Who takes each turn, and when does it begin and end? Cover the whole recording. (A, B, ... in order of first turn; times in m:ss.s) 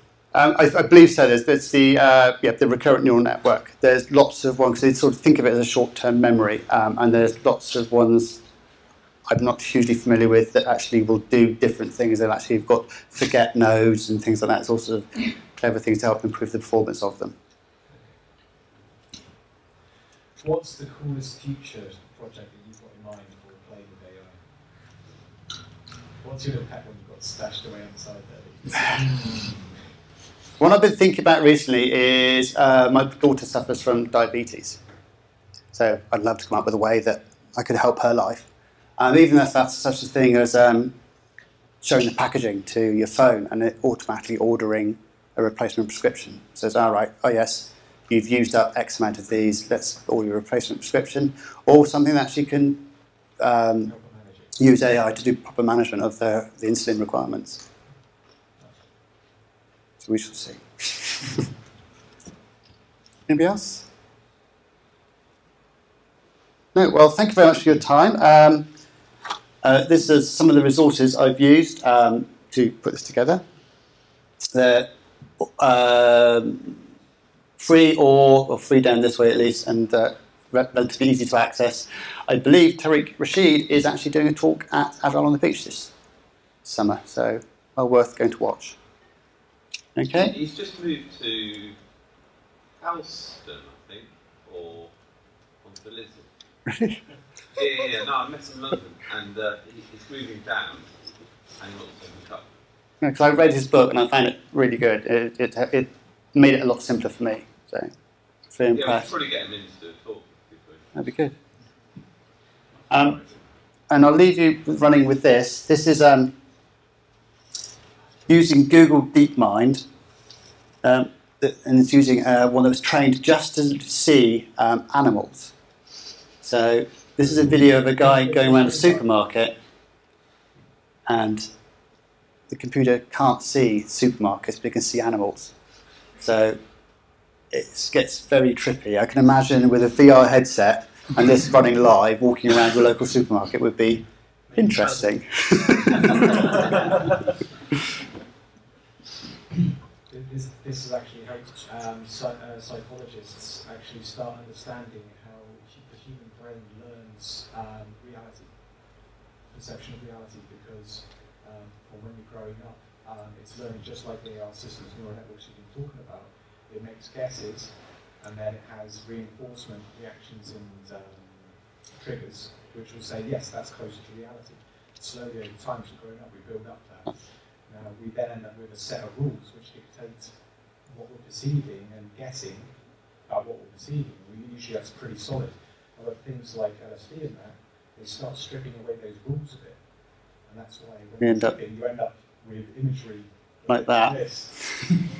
0:00.3-0:08.4 A
0:09.3-0:17.3 A
0:20.4-0:24.4 B
0:26.2-0:29.7 B
0:30.6-0:34.8 A
0:35.7-0:40.9 A
0:41.8-0:52.8 A
0:53.4-0:53.9 A
0:53.8-0:54.6 B
0:54.6-0:57.6 A
1:00.0-1:01.4 A
1:03.3-1:03.8 A
1:06.7-1:08.7 A
1:09.6-1:13.4 A
1:14.5-1:16.8 A
1:17.6-1:25.9 A
1:26.6-1:28.8 A
1:30.0-1:30.4 A
1:30.2-1:31.8 C
1:32.8-1:34.9 C
1:35.6-1:36.3 C
1:36.7-1:37.0 A
1:37.6-1:40.9 C
1:41.6-1:42.5 C
1:43.0-1:47.9 A
1:48.5-1:49.1 A
1:48.7-1:50.9 C
1:50.9-1:51.3 A
1:52.9-1:53.2 A
1:53.9-1:56.3 A
1:58.3-1:59.8 A
2:00.8-2:05.5 A
2:06.4-2:09.5 A
2:11.1-2:11.5 A
2:12.5-2:15.5 A
2:16.2-2:16.6 A
2:17.5-2:26.5 A
2:24.5-2:25.0 B
2:30.1-2:39.0 B
2:39.5-2:57.1 B
2:57.6-3:09.8 B
3:10.4-3:14.9 B
3:11.2-3:11.6 A
3:13.7-3:14.8 A